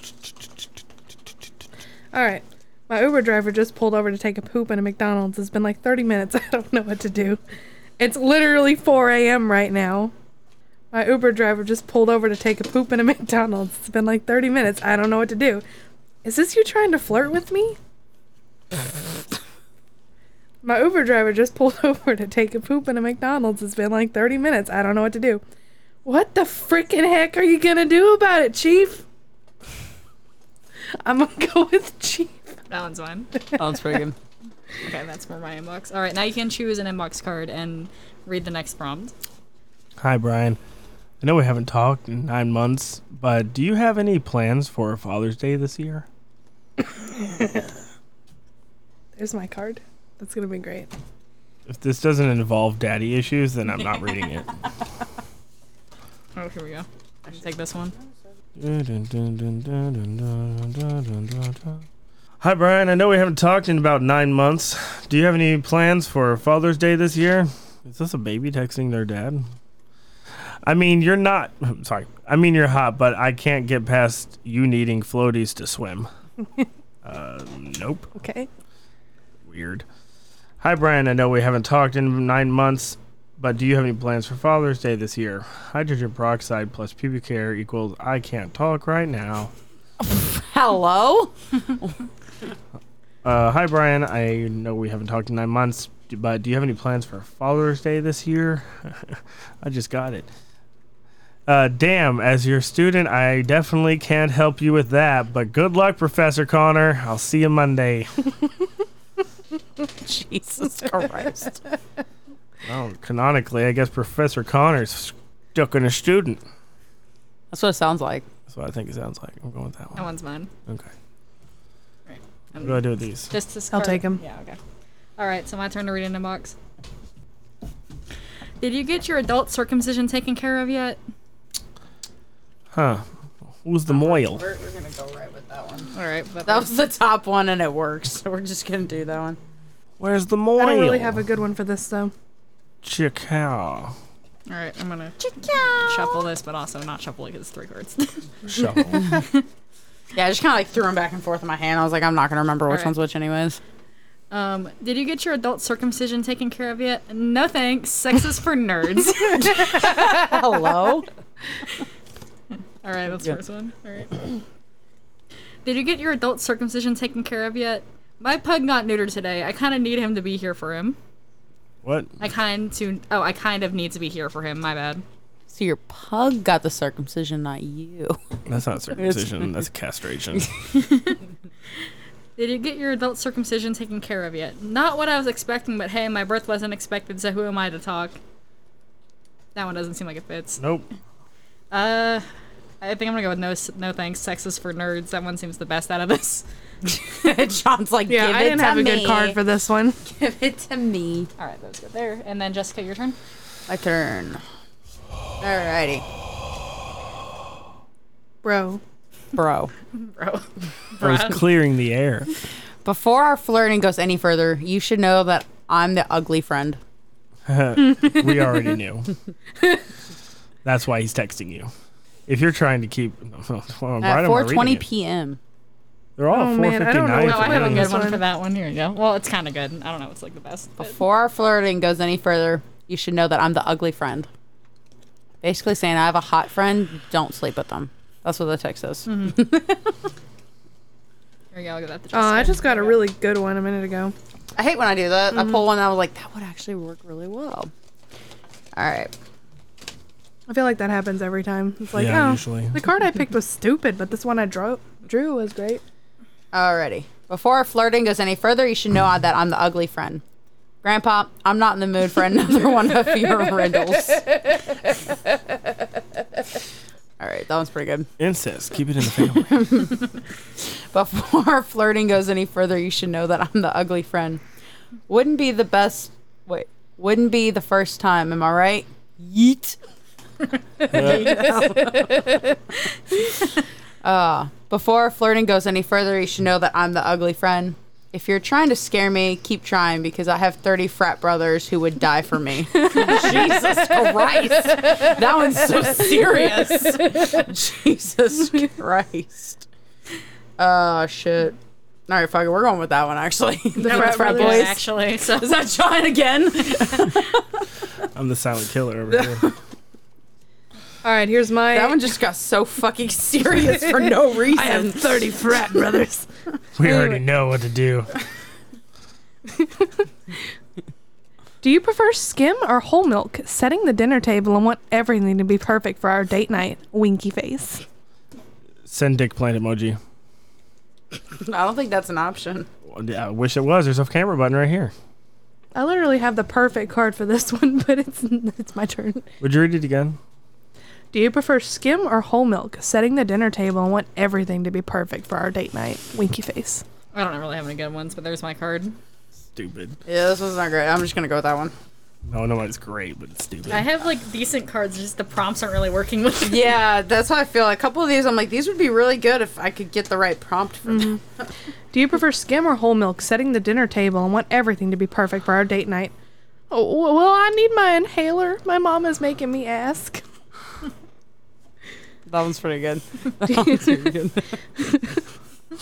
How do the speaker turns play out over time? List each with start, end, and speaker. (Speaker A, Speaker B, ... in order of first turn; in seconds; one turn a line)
Speaker A: 2.1-7.4
Speaker A: 8.0-10.1
Speaker A: 10.9-15.6
Speaker A: 16.2-17.8
Speaker A: 20.6-25.4
Speaker A: 26.0-29.0
Speaker A: 31.0-32.4
Speaker B: 32.7-33.3
Speaker C: 33.6-34.2
Speaker B: 34.8-39.1
Speaker D: 40.0-40.6
Speaker D: 41.2-46.1
Speaker A: 47.2-47.7
Speaker A: 49.2-50.9
Speaker D: 51.7-54.5
Speaker B: 56.3-57.9
Speaker D: 58.6-61.8
Speaker D: 62.4-69.4
Speaker D: 70.6-76.1
Speaker D: 77.0-78.1
Speaker A: 78.2-78.5
Speaker D: 79.4-79.8
Speaker D: 80.6-89.5
Speaker C: 90.0-91.9
Speaker D: 93.2-100.3
Speaker D: 101.5-108.1
Speaker C: 109.9-111.6
Speaker D: 112.6-116.4
Speaker C: 117.5-118.2
Speaker D: 118.5-120.0
Speaker B: 120.0-120.5
Speaker B: 122.1-124.6
Speaker D: 122.6-123.3
Speaker A: 123.7-124.2
Speaker B: 125.2-126.6
Speaker B: 128.6-131.0
Speaker D: 132.7-133.0
Speaker D: 133.6-134.4
Speaker C: 133.9-135.9
Speaker B: 135.9-136.7
Speaker C: 136.4-139.4
Speaker D: 140.0-141.2
Speaker A: 140.6-142.1
Speaker D: 142.8-143.9
Speaker B: 144.5-148.2
Speaker C: 145.2-146.2
Speaker D: 148.4-149.1
Speaker C: 150.1-153.6
Speaker B: 154.3-159.7
Speaker C: 159.4-161.1
Speaker B: 162.8-164.2
Speaker B: 165.6-171.0
Speaker D: 171.8-172.1
Speaker B: 172.2-175.0
Speaker C: 175.5-178.2
Speaker D: 178.5-180.5
Speaker C: 178.9-179.5
Speaker B: 180.9-181.1
Speaker B: 182.4-188.2
Speaker B: 189.6-190.6
Speaker D: 190.6-190.8
Speaker B: 191.7-192.2
Speaker B: 192.8-196.4
Speaker C: 196.9-199.4
Speaker A: 198.1-200.0
Speaker C: 200.1-201.3
Speaker B: 201.4-203.2
Speaker C: 203.7-204.4
Speaker C: 205.4-206.1
Speaker A: 208.4-208.8
Speaker C: 209.3-209.7
Speaker B: 209.9-211.4
Speaker D: 211.0-212.3
Speaker C: 212.8-216.8
Speaker D: 217.5-219.1
Speaker D: 220.6-221.7
Speaker D: 222.3-224.8
Speaker C: 224.0-225.4
Speaker D: 226.2-228.0
Speaker A: 226.3-228.2
Speaker B: 227.2-230.9
Speaker C: 230.8-234.3
Speaker C: 235.4-239.9
Speaker B: 239.1-239.4
Speaker B: 241.5-243.1
Speaker A: 242.1-244.1
Speaker C: 244.6-247.7
Speaker C: 248.7-249.1
Speaker A: 250.5-255.8
Speaker D: 251.9-252.8
Speaker C: 256.5-260.2
Speaker C: 260.8-264.3
Speaker C: 267.2-268.1
Speaker D: 268.2-269.9
Speaker C: 269.3-274.4
Speaker C: 275.1-279.8
Speaker C: 280.9-282.4
Speaker D: 280.9-281.4
Speaker C: 284.0-299.6
Speaker A: 292.9-293.5
Speaker C: 300.6-301.6
Speaker C: 302.1-307.6
Speaker A: 303.8-304.7
Speaker B: 303.8-305.6
Speaker D: 308.1-309.5
Speaker C: 309.1-309.5
Speaker A: 311.0-312.0
Speaker C: 311.7-315.3
Speaker A: 314.5-316.2
Speaker D: 316.8-318.1
Speaker A: 316.8-317.2
Speaker A: 319.5-320.1
Speaker A: 321.6-327.8
Speaker D: 328.9-330.0
Speaker C: 331.3-332.7
Speaker D: 332.9-334.9
Speaker A: 335.7-339.3
Speaker D: 339.4-340.2
Speaker A: 341.1-346.8
Speaker B: 347.1-349.0
Speaker D: 349.6-349.9
Speaker C: 350.1-351.7
Speaker D: 352.3-353.9
Speaker B: 353.7-356.7
Speaker C: 356.4-361.2
Speaker A: 360.9-361.2
Speaker A: 361.9-366.1
Speaker A: 366.7-370.2
Speaker C: 372.3-374.5
Speaker A: 373.4-374.1
Speaker A: 374.8-375.2